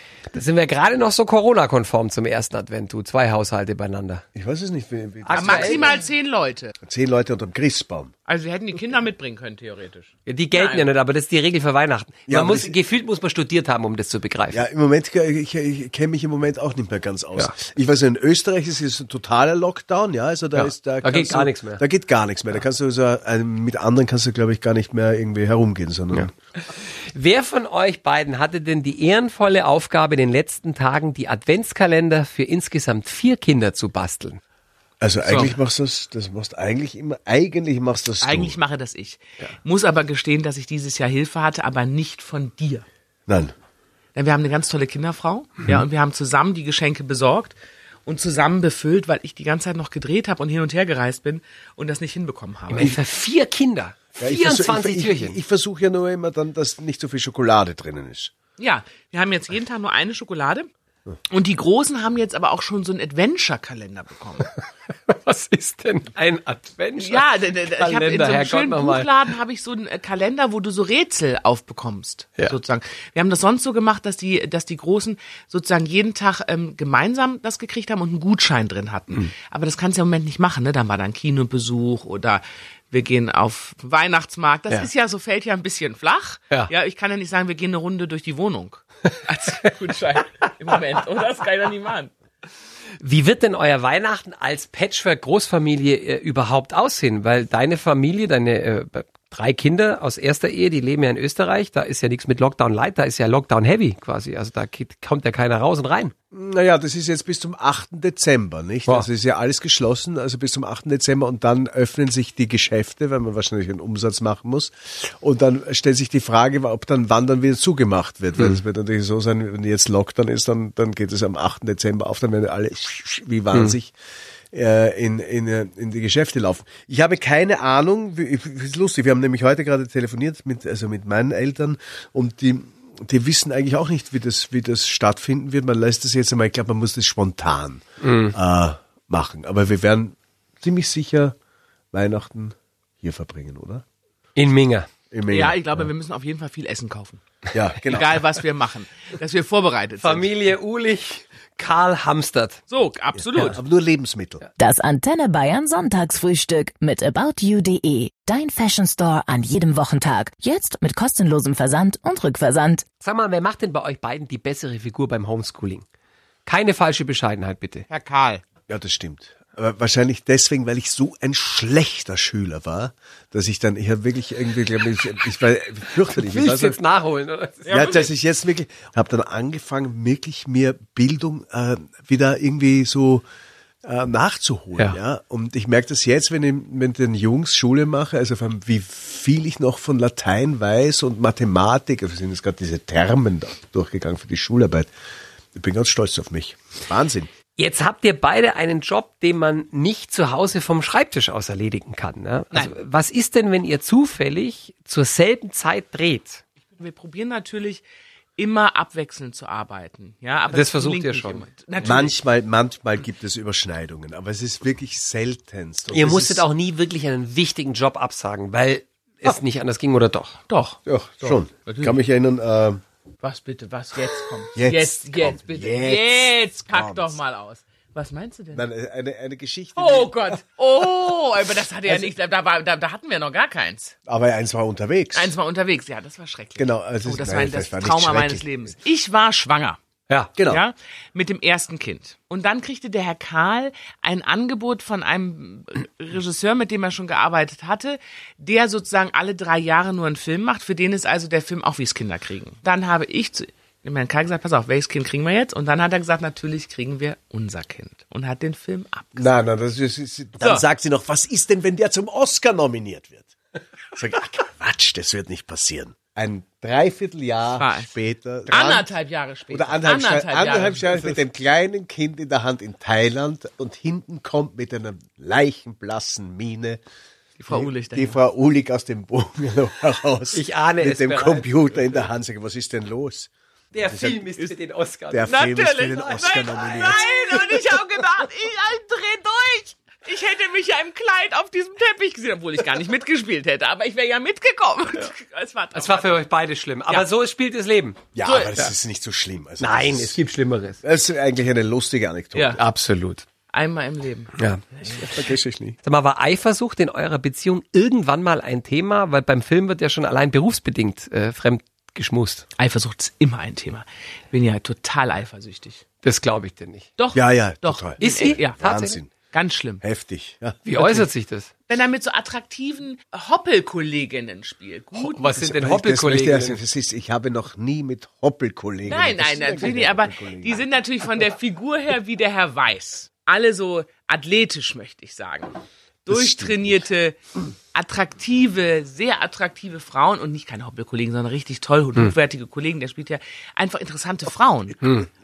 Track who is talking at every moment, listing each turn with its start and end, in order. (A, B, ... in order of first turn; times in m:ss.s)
0:00.3-0:04.2 A
0:04.4-0:06.0 B
0:05.2-0:06.0 A
0:05.4-0:06.7 C
0:06.8-0:08.1 B
0:08.3-0:10.9 C
0:10.3-0:14.6 A
0:12.3-0:12.7 B
0:14.5-0:26.3 B
0:20.6-0:21.8 A
0:27.0-0:34.4 A
0:35.0-0:38.6 B
0:35.3-0:35.6 C
0:38.2-0:42.8 C
0:43.3-0:43.5 B
0:44.2-0:52.9 C
0:52.7-0:55.4 A
0:54.2-0:58.3 B
0:58.6-1:00.7 C
1:01.3-1:04.5 C
1:05.1-1:09.1 A
1:07.0-1:32.1 C
1:33.0-1:46.1 A
1:46.3-2:03.9 B
2:04.5-2:21.3 B
2:18.0-2:18.4 A
2:21.9-2:23.8 B
2:24.4-2:24.9 A
2:25.1-2:25.9 B
2:25.3-2:27.2 C
2:27.5-2:28.2 B
2:27.8-2:30.3 C
2:30.0-2:32.6 A
2:32.7-2:33.6 C
2:33.2-2:34.4 B
2:34.6-2:42.8 D
2:43.0-2:45.8 A
2:46.5-2:47.9 A
2:47.9-2:48.4 C
2:48.7-2:56.8 B
2:56.1-2:57.9 A
2:57.6-2:58.1 C
2:57.7-3:03.2 B
3:03.8-3:14.9 B
3:15.6-3:17.3 B
3:17.6-3:26.4 A
3:26.8-3:27.8 C
3:28.4-3:32.2 C
3:30.5-3:31.5 A
3:31.8-3:36.4 B
3:35.9-3:40.4 A
3:40.5-3:42.0 C
3:40.8-3:42.8 B
3:43.2-3:48.7 C
3:44.6-3:47.2 B
3:48.5-3:50.4 B
3:49.8-3:53.9 C
3:54.1-3:55.3 B
3:55.1-3:59.8 C
3:56.6-3:58.7 B
4:00.4-4:00.6 B
4:00.4-4:19.4 C
4:19.2-4:23.3 B
4:23.9-4:28.9 B
4:27.6-4:27.9 C
4:28.5-4:31.2 C
4:29.5-4:36.8 B
4:37.4-4:38.2 C
4:37.5-4:43.3 B
4:40.3-4:42.1 A
4:43.7-4:45.5 A
4:43.9-4:44.3 B
4:45.1-4:47.5 B
4:45.3-4:56.2 C
4:55.7-4:58.0 A
4:58.1-5:00.2 B
4:58.2-4:58.6 C
4:59.6-5:00.8 A
5:00.8-5:02.6 B
5:02.6-5:03.2 A
5:03.5-5:05.0 C
5:04.4-5:04.6 A
5:04.8-5:05.8 B
5:05.8-5:12.4 A
5:12.6-5:15.8 C
5:16.0-5:16.9 A
5:17.0-5:18.6 C
5:17.1-5:19.1 B
5:18.0-5:19.0 A
5:19.3-5:19.8 C
5:19.8-5:21.0 B
5:20.6-5:21.5 A
5:21.7-5:25.3 C
5:25.0-5:26.6 A
5:25.3-5:30.6 B
5:28.9-5:37.2 C
5:36.1-5:36.8 B
5:37.7-5:44.9 C
5:44.8-5:45.1 A